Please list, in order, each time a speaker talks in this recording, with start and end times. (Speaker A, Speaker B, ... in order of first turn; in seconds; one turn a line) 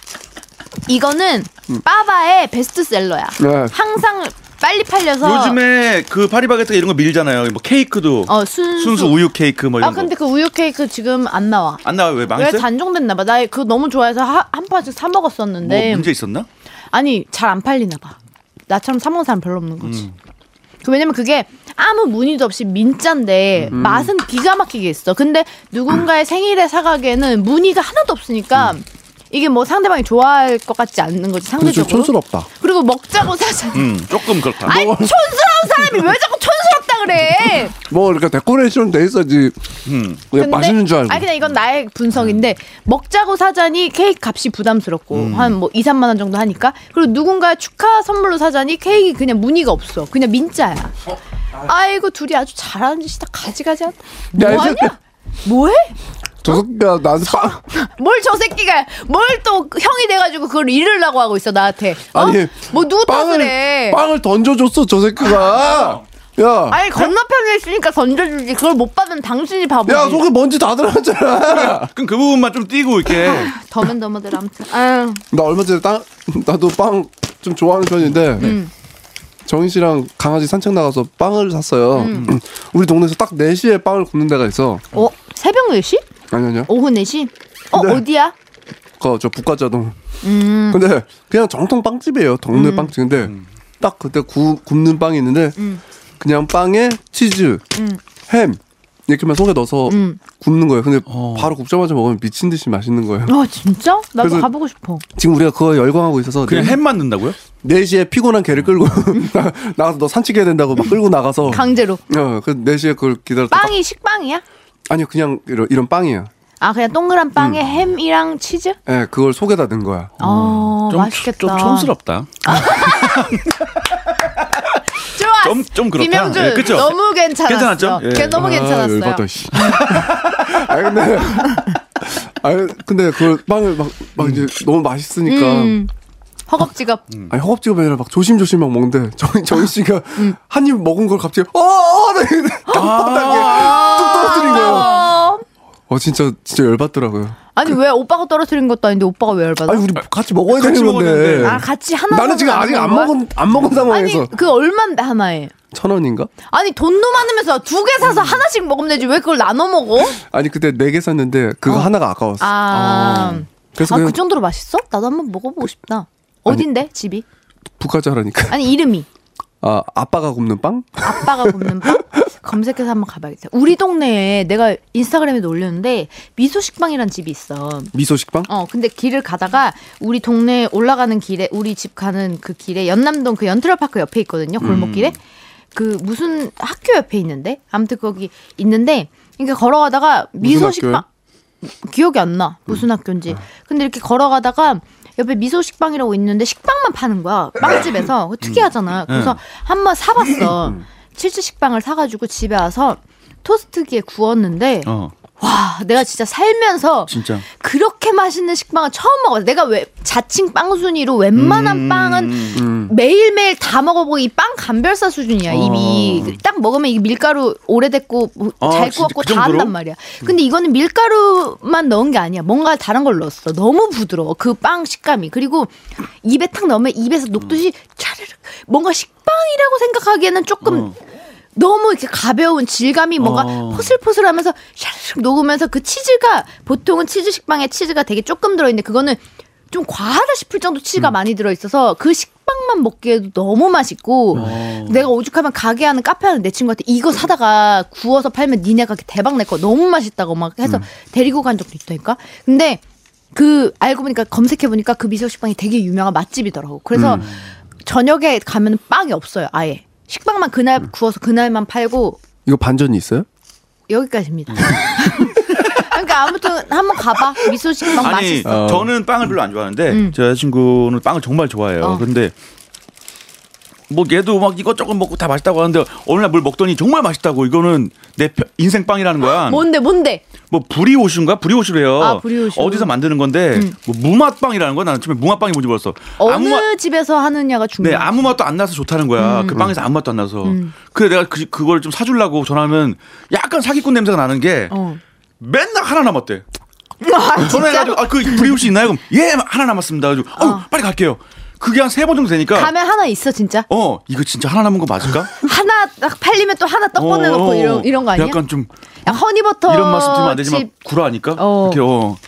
Speaker A: 0.9-5.6
Speaker B: 3.4-3.7
Speaker C: 5.2-10.1
Speaker A: 8.3-9.2
Speaker A: 9.8-11.8
Speaker C: 11.8-12.7
Speaker A: 12.3-16.1
Speaker C: 15.6-16.5
Speaker A: 16.9-18.1
Speaker A: 18.7-20.1
Speaker C: 19.8-20.1
Speaker A: 20.8-37.7
Speaker B: 23.7-24.1
Speaker B: 31.6-32.5
Speaker C: 33.7-34.8
Speaker B: 34.6-35.1
Speaker B: 37.8-39.6
Speaker C: 39.9-40.2
Speaker B: 40.3-41.3
Speaker A: 40.3-50.9
Speaker C: 45.1-45.5
Speaker A: 51.6-55.9
Speaker B: 54.3-54.9
Speaker B: 56.4-57.6
Speaker A: 57.3-64.0
Speaker B: 62.1-67.0
Speaker C: 65.3-66.0
Speaker A: 66.7-70.2
Speaker B: 69.9-71.9
Speaker C: 71.6-73.5
Speaker A: 73.1-75.2
Speaker B: 75.3-78.6
Speaker A: 78.4-78.7
Speaker B: 79.4-84.8
Speaker A: 82.0-82.3
Speaker C: 82.1-82.4
Speaker A: 84.9-86.1
Speaker B: 86.3-86.7
Speaker A: 86.7-88.3
Speaker B: 87.7-88.0
Speaker B: 89.0-90.0
Speaker A: 90.2-90.8
Speaker B: 90.7-95.6
Speaker A: 92.5-92.9
Speaker A: 95.6-95.8
Speaker B: 96.2-97.6
Speaker B: 98.3-103.3
Speaker A: 99.9-100.2
Speaker C: 101.1-101.5
Speaker A: 103.3-105.0
Speaker B: 104.2-104.5
Speaker B: 105.2-106.8
Speaker C: 106.4-107.4
Speaker B: 107.6-113.7
Speaker A: 111.5-112.0
Speaker A: 113.5-114.4
Speaker B: 114.9-116.3
Speaker A: 116.6-118.8
Speaker B: 118.8-120.1
Speaker C: 120.2-124.8
Speaker A: 120.2-121.9
Speaker A: 122.4-123.4
Speaker A: 125.0-129.2
Speaker C: 125.3-128.4
Speaker B: 128.3-135.8
Speaker C: 129.5-130.5
Speaker C: 134.2-134.4
Speaker A: 135.2-135.9
Speaker A: 136.5-137.0
Speaker B: 137.3-144.9
Speaker A: 142.7-145.4
Speaker C: 142.7-145.0
Speaker B: 145.9-147.4
Speaker A: 147.5-149.9
Speaker B: 149.7-154.3
Speaker C: 150.5-151.6
Speaker A: 151.4-153.1
Speaker A: 153.9-155.5
Speaker B: 155.7-156.3
Speaker A: 156.5-160.2
Speaker B: 160.2-164.2
Speaker A: 161.7-167.2
Speaker C: 162.7-163.4
Speaker B: 167.8-168.7
Speaker A: 168.5-169.1
Speaker B: 169.6-172.0
Speaker A: 171.0-177.9
Speaker B: 177.9-178.5
Speaker A: 178.5-185.2
Speaker C: 184.6-185.2
Speaker A: 185.7-191.1
Speaker B: 190.4-191.0
Speaker A: 191.6-230.9
Speaker C: 198.4-199.4
Speaker C: 204.8-205.1
Speaker C: 207.1-207.4
Speaker C: 211.3-212.6
Speaker B: 212.6-212.9
Speaker B: 215.5-216.3
Speaker C: 218.6-219.7
Speaker C: 230.6-230.9
Speaker A: 231.6-239.2
Speaker C: 233.2-233.9
Speaker A: 239.7-252.8
Speaker C: 244.3-245.0
Speaker A: 253.3-257.3
Speaker B: 256.9-257.2
Speaker A: 257.8-262.2
Speaker B: 262.4-263.3
Speaker A: 263.9-268.6
Speaker C: 267.9-272.3
Speaker B: 268.4-268.9
Speaker A: 269.9-270.1
Speaker C: 273.9-279.6
Speaker A: 279.2-280.2
Speaker C: 280.5-286.7
Speaker A: 282.0-282.9
Speaker A: 286.2-288.3
Speaker C: 287.8-294.7
Speaker A: 289.2-289.7
Speaker A: 290.4-290.7
Speaker A: 294.7-295.0
Speaker C: 295.4-296.4
Speaker A: 297.0-298.7
Speaker C: 297.4-302.7
Speaker A: 300.4-300.6
Speaker A: 302.5-303.7
Speaker C: 303.7-305.3
Speaker A: 305.4-308.4
Speaker C: 306.9-312.2
Speaker A: 309.0-310.7
Speaker A: 311.4-311.8